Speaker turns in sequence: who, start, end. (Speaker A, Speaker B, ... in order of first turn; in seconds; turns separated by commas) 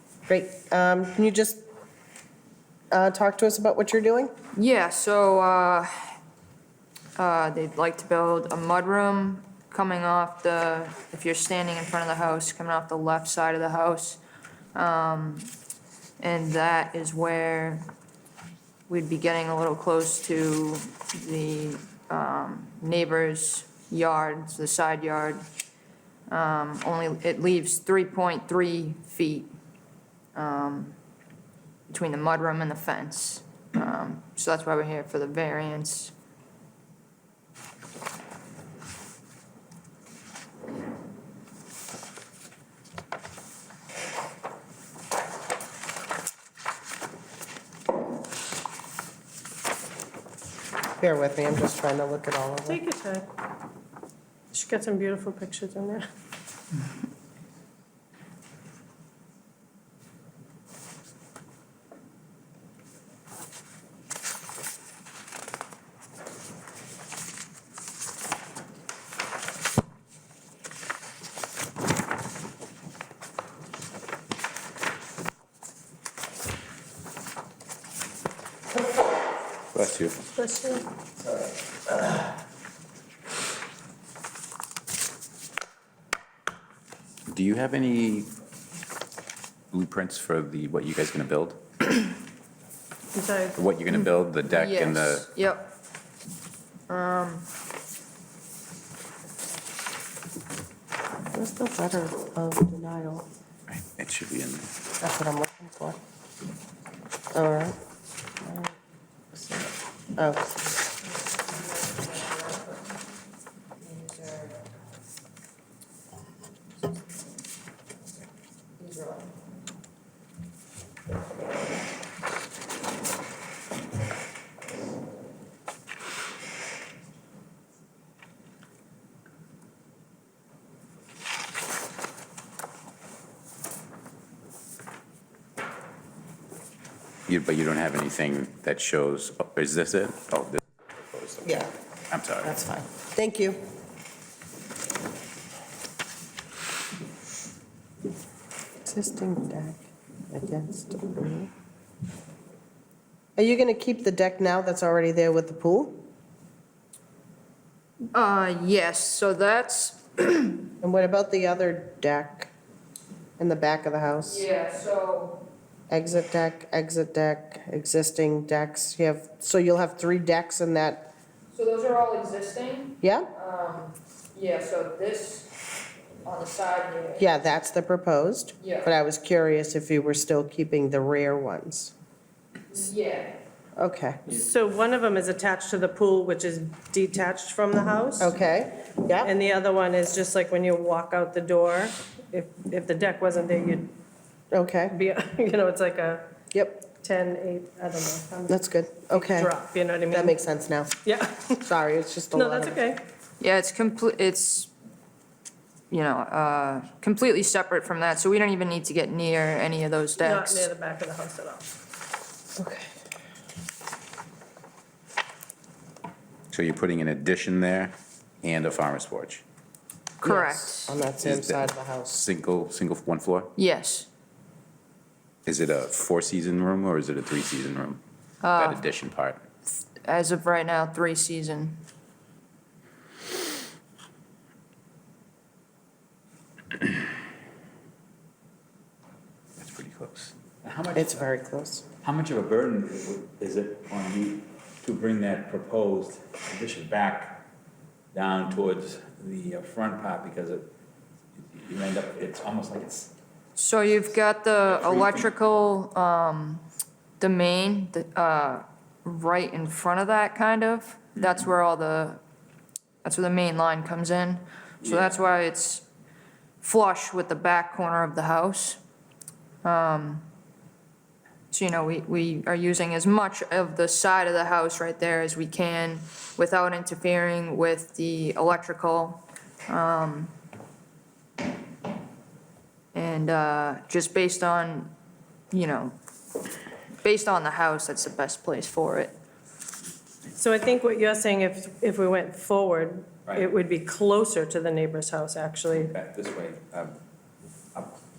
Speaker A: 0.3-1.6, Speaker A: 2.9-4.3, Speaker B: 4.5-6.1, Speaker B: 7.2-14.2, Speaker B: 14.7-15.5, Speaker B: 16.2-17.9, Speaker B: 18.9-25.4, Speaker B: 26.3-29.5, Speaker B: 30.3-31.0, Speaker B: 31.9-36.1, Speaker A: 51.0-52.8, Speaker C: 52.7-53.3, Speaker C: 54.5-56.0, Speaker D: 79.7-80.2, Speaker C: 80.4-80.8, Speaker D: 87.3-88.3, Speaker D: 89.7-92.0, Speaker C: 93.1-93.6, Speaker D: 93.6-95.3, Speaker B: 94.5-95.7, Speaker B: 96.9-97.5, Speaker A: 101.3-103.3, Speaker D: 103.7-104.7, Speaker A: 105.0-106.0, Speaker A: 107.3-107.8, Speaker A: 108.4-108.7, Speaker A: 109.3-110.7, Speaker B: 111.5-112.8, Speaker B: 113.8-114.6, Speaker B: 118.8-119.3, Speaker D: 137.3-142.5, Speaker A: 141.4-141.7, Speaker A: 142.4-143.6, Speaker A: 148.8-149.8, Speaker A: 150.3-151.5, Speaker A: 153.3-156.0, Speaker B: 158.1-160.7, Speaker A: 160.8-162.5, Speaker A: 163.4-164.4, Speaker B: 164.2-165.4, Speaker A: 165.9-171.1, Speaker B: 171.5-175.5, Speaker A: 173.0-173.3, Speaker B: 176.2-177.3, Speaker A: 177.2-181.9, Speaker B: 178.6-178.9, Speaker B: 182.7-183.4, Speaker A: 183.8-184.2, Speaker C: 184.3-188.3, Speaker A: 188.2-189.3, Speaker C: 189.2-193.9, Speaker A: 194.5-195.0, Speaker C: 194.9-196.3, Speaker A: 196.5-196.8, Speaker C: 196.9-198.5, Speaker A: 198.5-199.5, Speaker C: 199.1-200.3, Speaker A: 200.1-201.0, Speaker C: 201.0-201.6, Speaker A: 201.6-202.8, Speaker C: 202.3-203.0, Speaker B: 203.4-204.7, Speaker B: 205.9-210.7, Speaker C: 210.2-211.7, Speaker A: 212.6-212.9, Speaker D: 216.5-219.4, Speaker B: 220.2-221.0, Speaker A: 220.2-222.2, Speaker D: 221.2-223.5, Speaker B: 223.6-224.1, Speaker D: 225.4-228.0, Speaker B: 228.4-228.8, Speaker D: 228.6-229.4, Speaker B: 230.0-231.8, Speaker D: 239.6-241.2, Speaker A: 240.9-241.8, Speaker E: 242.1-246.9, Speaker D: 243.7-244.1, Speaker D: 244.8-245.4, Speaker D: 246.9-247.4, Speaker E: 248.1-250.7, Speaker D: 248.1-248.8, Speaker D: 249.7-250.5, Speaker E: 251.5-253.1, Speaker B: 253.6-256.6, Speaker D: 254.9-255.3, Speaker B: 257.2-262.2, Speaker B: 263.0-265.9, Speaker B: 266.6-268.8, Speaker B: 269.6-270.2, Speaker B: 271.5-280.3, Speaker B: 282.9-284.9, Speaker B: 285.5-286.0, Speaker B: 287.0-289.1, Speaker C: 290.4-295.9, Speaker E: 295.9-297.0